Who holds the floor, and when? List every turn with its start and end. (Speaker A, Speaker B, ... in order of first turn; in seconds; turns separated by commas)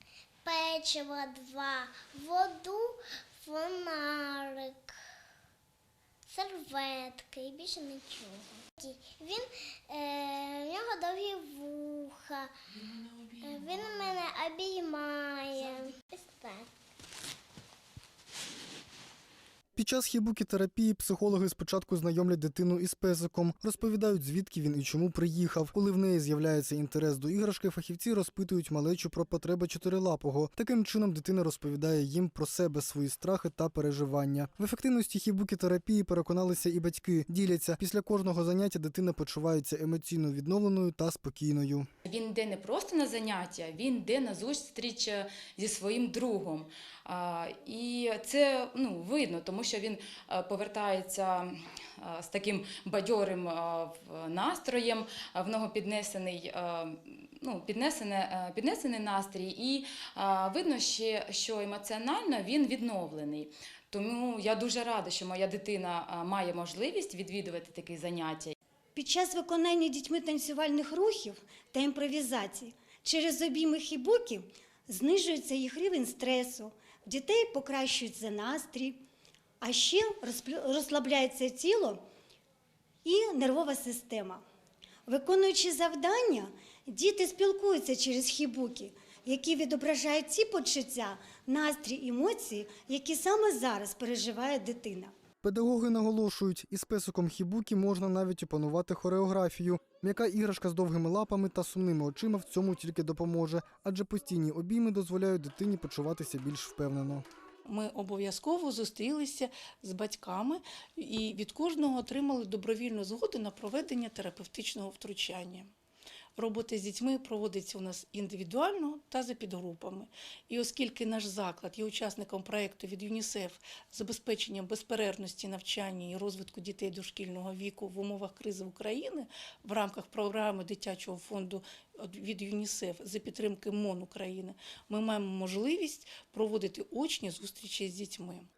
Speaker A: 0.4-5.0, Speaker A: 6.3-12.5, Speaker A: 13.3-16.7, Speaker B: 19.8-41.9, Speaker C: 42.0-68.5, Speaker D: 68.9-79.0, Speaker D: 79.6-82.0, Speaker D: 83.0-84.4, Speaker D: 85.1-95.1, Speaker B: 95.4-107.2, Speaker E: 107.7-115.7, Speaker E: 116.4-138.5